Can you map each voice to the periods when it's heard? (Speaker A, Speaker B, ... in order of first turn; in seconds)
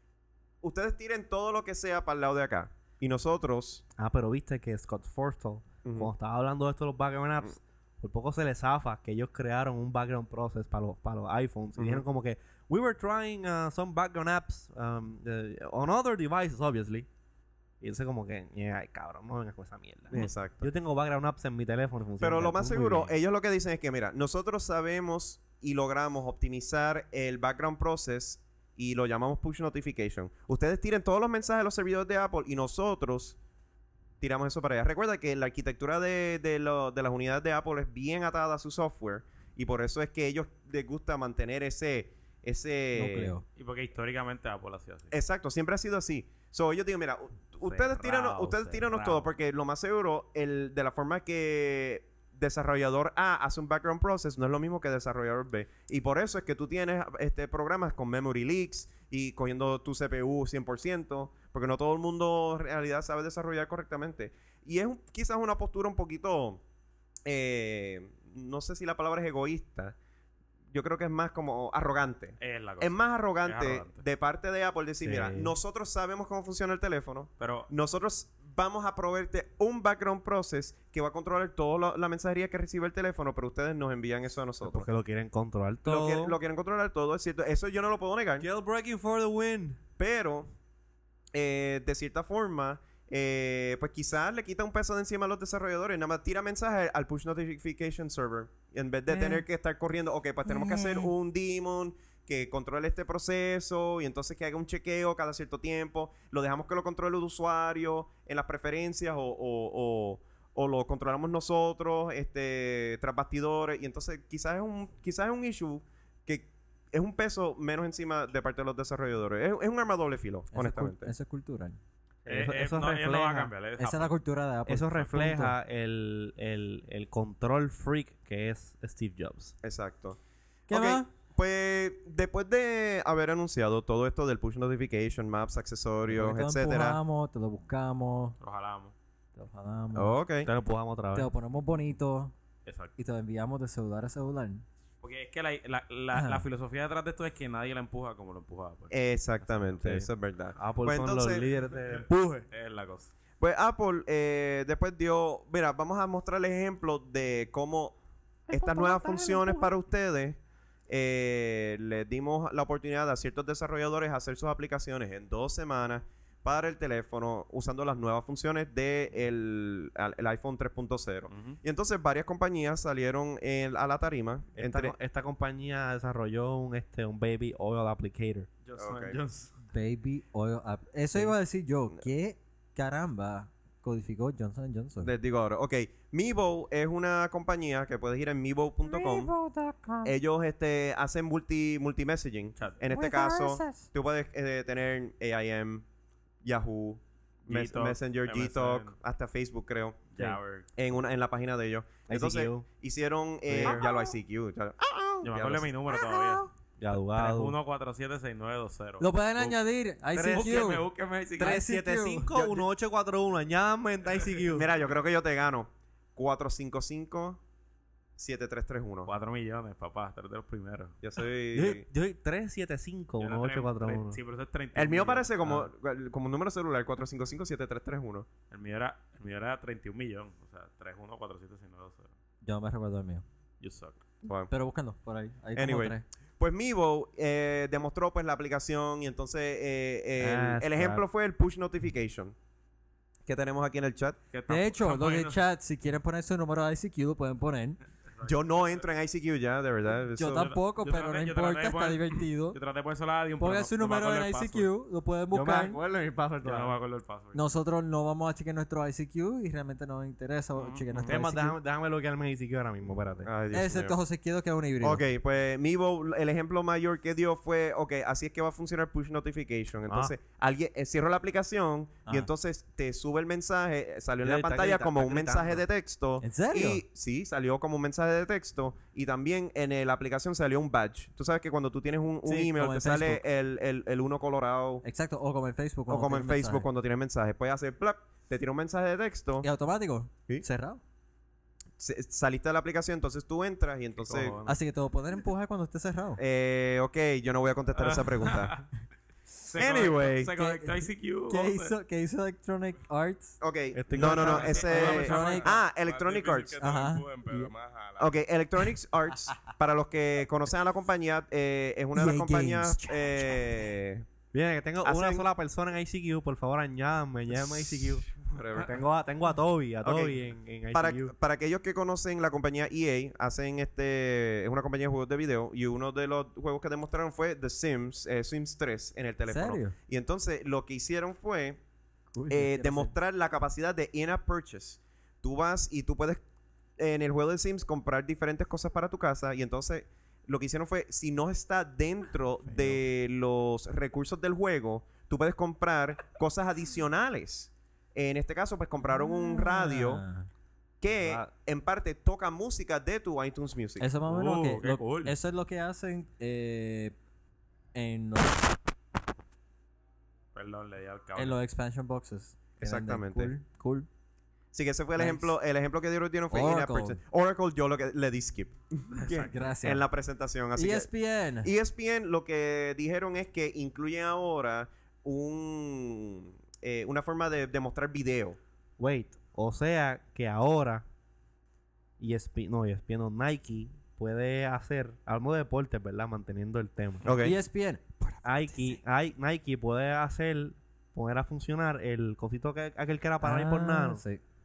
Speaker A: 0.6-3.8, 5.8-6.1, 11.8-12.0, 20.1-20.7, 22.2-33.4, 34.2-43.4, 45.1-66.6, 67.3-70.0, 70.7-84.9, 85.8-88.5, 90.0-90.5, 91.3-121.1, 129.6-130.2, 130.7-137.0, 139.9-140.5, 148.9-151.5, 153.4-158.0, 158.5-175.0, 178.8-179.2, 185.0-189.3, 190.0-195.8, 196.4-200.1, 200.8-205.7, 214.5-217.4, 218.2-219.1, 221.0-221.9, 224.8-228.3, 234.2-234.5, 235.6-242.3, 243.3-244.2, 248.2-250.5, 263.2-264.0, 264.8-284.8, 285.9-289.5, 291.8-294.4, 296.2-298.6, 299.6-300.3, 303.4-306.6, 308.0-314.1, 314.8-315.3, 317.3-318.8, 319.8-320.2, 320.7-331.6, 332.3-336.2, 336.8-350.0, 350.8-353.9, 362.6-363.3, 364.5-370.9, 371.4-378.4, 387.1-387.4
Speaker B: 4.0-17.1, 17.8-23.1, 75.0-75.5, 84.6-86.4, 88.4-89.8, 122.2-123.5, 124.7-129.6, 140.4-141.3, 149.8-152.5, 174.6-178.5, 202.1-202.7, 203.5-203.9, 206.8-207.5, 210.1-210.8, 211.4-214.7, 221.5-224.2, 240.2-241.0, 255.3-256.8, 261.1-263.3, 269.9-270.1, 274.2-275.6, 303.7-304.8, 314.3-321.1, 350.9-351.3, 378.8-380.9, 382.0-387.1, 388.2-394.0
Speaker C: 42.9-43.5, 99.2-99.4, 120.5-121.8, 123.8-125.5, 130.7-131.1, 136.1-138.4, 139.4-140.2, 141.1-142.3, 143.0-144.7, 146.1-146.4, 158.5-159.7, 179.7-185.1, 188.9-190.2, 192.9-193.9, 206.0-206.5, 209.0-210.9, 211.4-212.3, 232.4-233.2, 234.5-236.0, 244.5-247.8, 250.1-252.6, 253.4-255.8, 257.3-261.6, 263.5-265.0, 276.2-276.8, 282.2-283.2, 284.8-286.7, 289.4-290.8, 294.5-296.2, 300.3-303.4, 304.0-305.5, 306.6-307.5, 311.9-313.6, 329.3-329.8, 332.1-332.9, 349.1-350.3, 353.8-356.9, 357.7-358.6, 361.2-363.9, 365.0-365.3, 366.3-367.0, 369.1-369.9, 370.6-371.5, 387.1-388.8, 393.2-394.2
Speaker D: 43.6-45.1, 47.6-49.3, 72.4-74.0, 77.4-77.7, 122.3-124.1, 138.4-138.9, 142.7-142.9, 145.0-148.9, 152.5-153.1, 171.3-171.6, 178.6-179.5, 197.5-198.9, 200.1-200.7, 205.2-209.6, 210.3-211.6, 219.1-221.0, 223.2-225.6, 228.5-232.1, 233.6-234.0, 244.3-245.4, 248.2-248.8, 250.3-254.7, 256.4-257.5, 260.6-261.1, 294.1-294.6, 297.8-298.6, 299.4-301.7, 303.9-305.4, 354.1-355.1, 360.4-361.4, 368.9-369.4
Speaker E: 304.4-308.1